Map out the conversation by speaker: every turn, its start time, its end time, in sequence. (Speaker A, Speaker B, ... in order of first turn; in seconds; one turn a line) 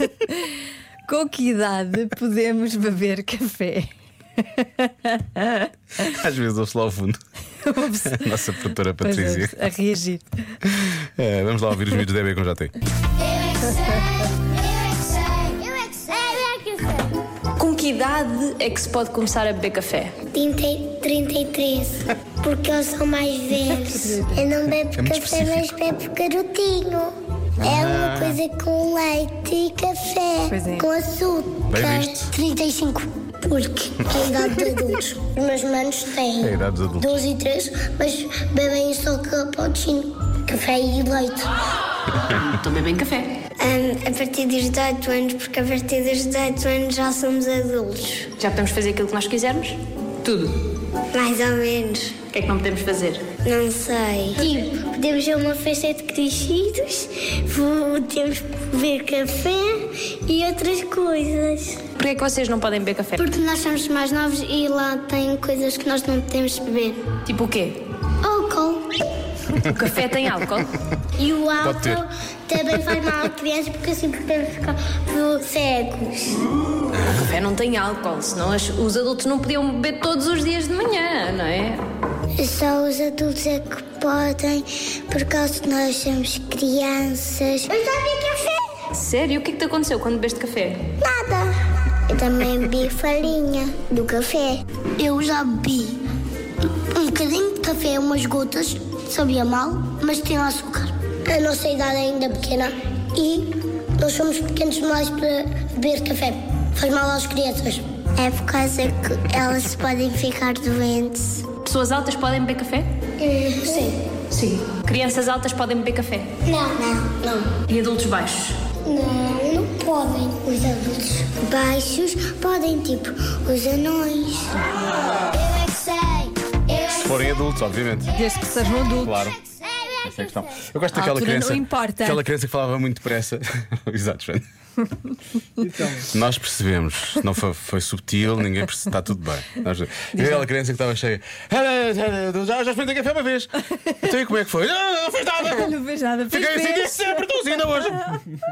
Speaker A: 1.1-5.7
Speaker B: 6.0-7.2
Speaker A: 7.7-8.4
Speaker B: 7.9-9.6
Speaker A: 9.0-10.2
Speaker B: 10.7-12.7
Speaker C: 13.5-17.0
Speaker D: 17.6-20.1
Speaker C: 20.3-36.5
Speaker A: 23.9-24.2
Speaker B: 24.9-25.8
Speaker B: 27.6-28.4
Speaker A: 30.5-30.9
Speaker B: 31.7-32.3
Speaker B: 36.4-37.2
Speaker C: 37.0-41.5
Speaker D: 42.2-43.4
Speaker C: 43.6-48.3
Speaker D: 48.4-50.6
Speaker C: 51.1-52.2
Speaker D: 52.3-53.2
Speaker C: 53.4-61.8
Speaker D: 62.0-63.2
Speaker C: 63.2-67.0
Speaker D: 67.2-67.8
Speaker C: 68.2-68.8
Speaker D: 69.5-70.7
Speaker C: 71.2-76.4
Speaker B: 71.6-72.0
Speaker B: 76.9-77.2
Speaker D: 77.1-81.8
Speaker C: 82.4-88.7
Speaker D: 88.9-90.8
Speaker C: 91.0-91.5
Speaker C: 92.1-96.0
Speaker C: 96.9-111.5
Speaker D: 111.6-112.9
Speaker C: 113.2-114.0
Speaker D: 113.7-116.3
Speaker C: 116.5-117.5
Speaker D: 117.7-118.6
Speaker C: 118.8-126.3
Speaker B: 126.7-128.1
Speaker A: 128.1-129.2
Speaker B: 128.9-129.4
Speaker B: 129.9-134.4
Speaker A: 130.9-132.2
Speaker B: 135.6-148.2
Speaker A: 140.1-140.5
Speaker A: 145.4-147.0